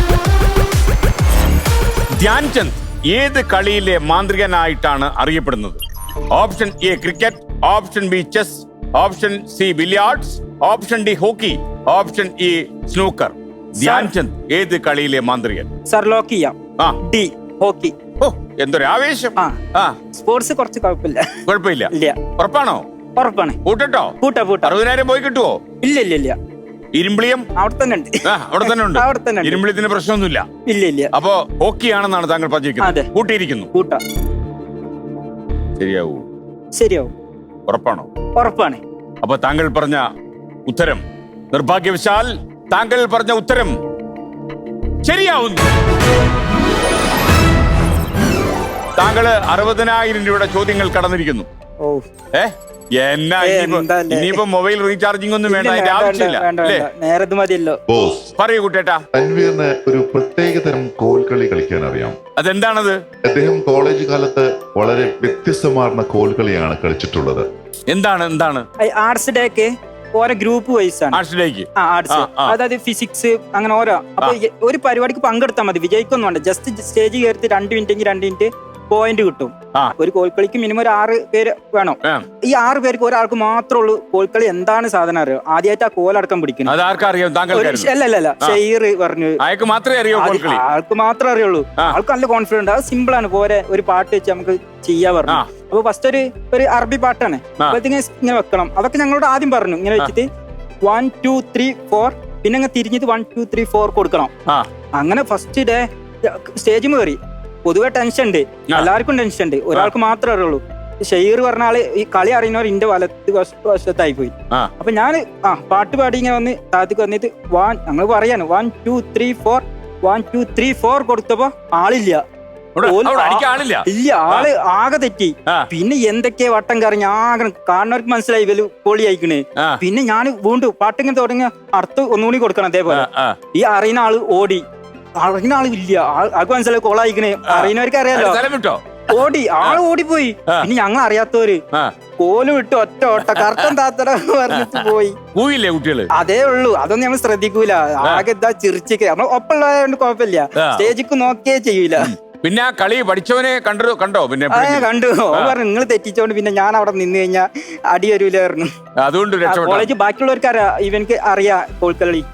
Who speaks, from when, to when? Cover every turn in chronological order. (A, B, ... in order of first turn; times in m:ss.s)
0:02.2-0:05.8 A
0:06.3-0:15.7 A
0:13.8-0:14.1 B
0:15.9-0:17.9 B
0:18.2-0:20.0 A
0:20.1-0:21.3 B
0:21.4-0:22.8 A
0:21.9-0:22.2 B
0:23.2-0:23.6 B
0:23.6-0:25.6 A
0:24.2-0:24.7 B
0:25.8-0:26.4 B
0:26.9-0:27.4 A
0:27.6-0:29.6 B
0:28.2-0:30.4 A
0:30.7-0:31.1 B
0:31.1-0:33.7 A
0:32.8-0:33.1 B
0:33.7-0:34.0 B
0:35.8-0:36.2 A
0:36.8-0:37.1 B
0:37.7-0:38.1 A
0:38.4-0:38.8 B
0:39.2-0:40.0 A
0:40.7-0:43.8 A
0:45.0-0:45.6 A
0:49.0-0:51.5 A
0:52.3-0:56.9 A
0:53.4-0:54.4 B
0:55.5-0:57.8 B
0:57.9-0:58.3 C
0:58.4-0:59.0 A
0:59.1-1:02.2 C
1:02.4-1:03.0 A
1:03.2-1:07.5 C
1:07.9-1:08.6 A
1:08.8-1:11.2 B
1:11.1-1:12.6 A
1:11.8-1:26.7 B
1:26.6-1:27.9 A
1:27.5-1:29.4 B
1:29.4-1:30.6 A
1:30.1-1:40.3 B
1:40.8-1:44.3 B
1:45.0-2:02.2 B
2:02.8-2:04.5 A
2:02.8-2:14.6 B
2:09.6-2:09.8 A
2:12.9-2:13.4 A
2:15.2-2:18.4 B
2:17.5-2:19.8 A
2:19.1-2:21.6 B
2:22.2-2:25.2 B
2:23.2-2:23.7 A
2:24.5-2:26.1 A
2:26.1-2:32.1 B
2:30.6-2:30.9 A
2:32.0-2:35.5 A
2:34.5-2:38.7 B
2:39.0-2:39.9 A
2:39.4-2:42.2 B